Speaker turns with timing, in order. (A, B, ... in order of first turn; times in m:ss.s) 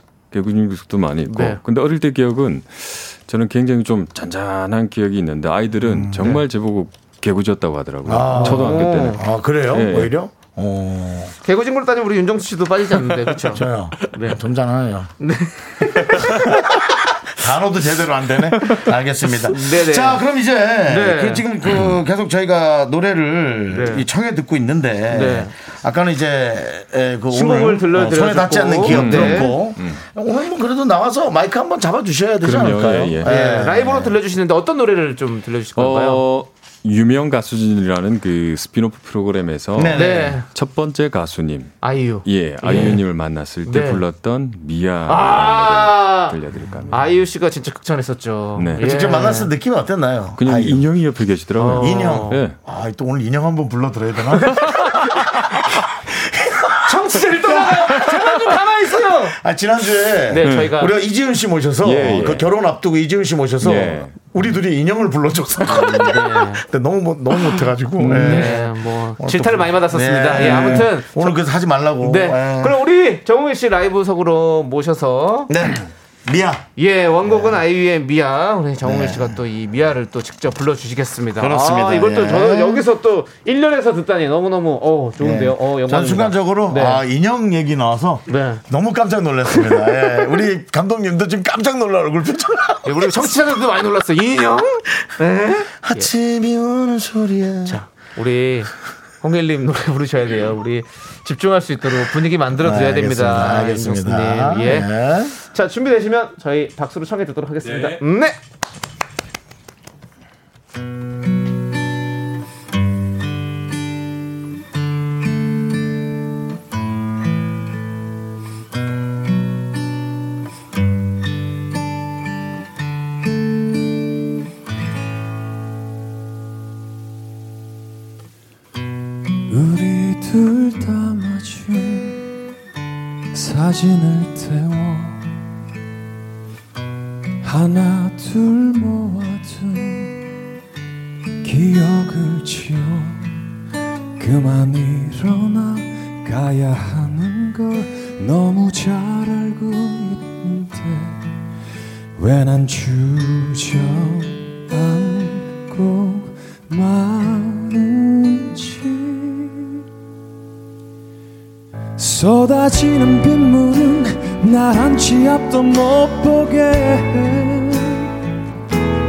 0:00.3-0:10.2 A
0:01.3-0:01.6 B
0:05.8-0:06.4 C
0:08.0-0:11.3 C
0:08.3-0:09.2 B
0:11.4-0:14.4 B
0:13.5-0:15.1 C
0:15.2-0:16.7 B
0:16.2-0:34.2 C
0:19.5-0:20.2 B
0:20.9-0:21.5 B
0:23.7-0:24.1 B
0:25.1-0:25.5 B
0:27.3-0:29.6 B
0:28.9-0:30.0 A
0:32.4-0:33.4 A
0:33.2-0:36.2 B
0:35.8-0:47.1 A
0:39.8-0:40.4 C
0:39.9-0:40.5 B
0:41.8-0:43.0 B
0:43.6-0:44.0 B
0:45.1-0:46.4 B
0:46.9-0:49.5 B
0:48.6-0:49.0 A
0:48.8-0:50.9 C
0:50.4-0:52.6 A
0:51.6-0:52.4 B
0:51.7-0:58.5 C
0:54.6-0:54.9 A
0:56.9-0:59.4 B
0:59.2-1:12.8 C
1:00.3-1:00.9 B
1:00.4-1:00.7 A
1:01.8-1:02.5 A
1:03.6-1:04.2 A
1:05.7-1:06.6 B
1:08.0-1:11.4 B
1:08.0-1:08.6 A
1:10.4-1:10.8 A
1:12.0-1:15.5 B
1:15.5-1:16.7 C
1:16.8-1:27.0 B
1:17.2-1:17.6 C
1:18.8-1:19.4 C
1:21.4-1:22.8 C
1:25.2-1:33.3 C
1:28.3-1:28.6 B
1:29.5-1:30.0 B
1:32.8-1:36.1 B
1:35.8-1:37.8 C
1:37.7-1:38.7 B
1:39.2-1:48.4 B
1:42.6-1:45.4 C
1:47.6-1:48.0 A
2:09.5-2:12.2 D
2:13.3-2:15.2 D
2:17.4-2:20.2 D
2:21.4-2:23.3 D
2:24.2-2:31.2 D
2:32.2-2:39.8 D
2:42.0-2:48.1 D